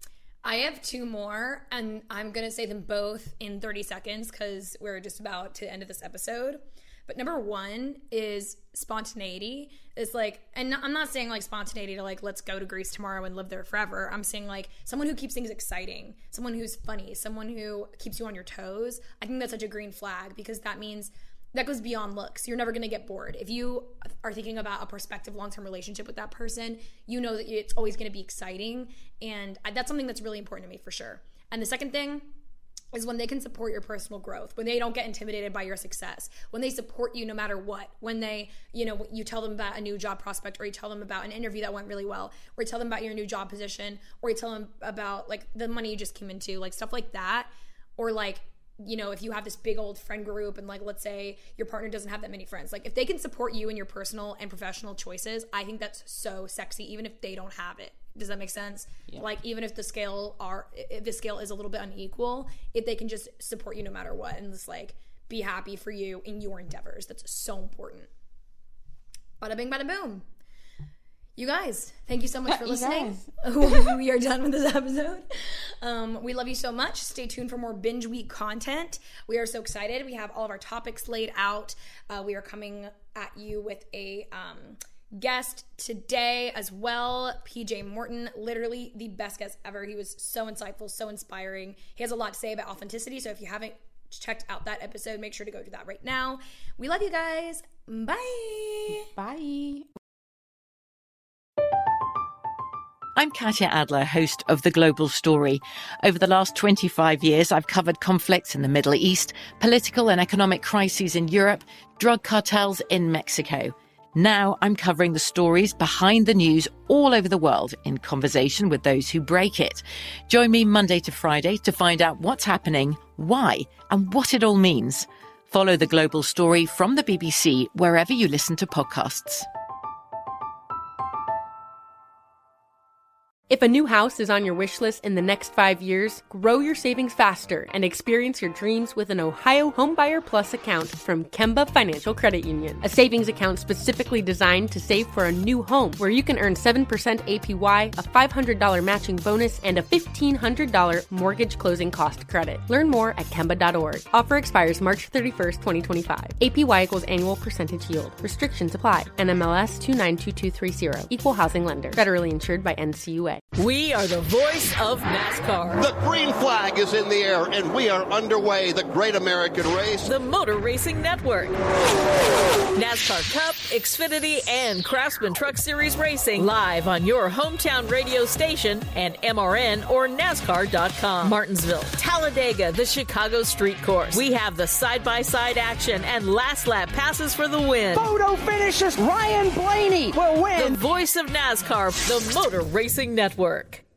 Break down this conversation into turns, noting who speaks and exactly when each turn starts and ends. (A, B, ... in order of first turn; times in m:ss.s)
0:00.4-0:32.3 A
0:32.9-1:08.1 A
1:09.4-1:10.2 A
1:11.4-1:39.1 A
1:12.5-1:13.7 B
1:39.0-1:39.9 B
1:43.2-2:09.5 C
2:13.5-2:43.4 D
2:43.6-2:45.9 E
2:45.8-2:50.1 F
2:50.0-2:51.6 E
2:52.7-3:08.1 E
3:07.9-3:10.8 G
3:10.5-3:13.8 E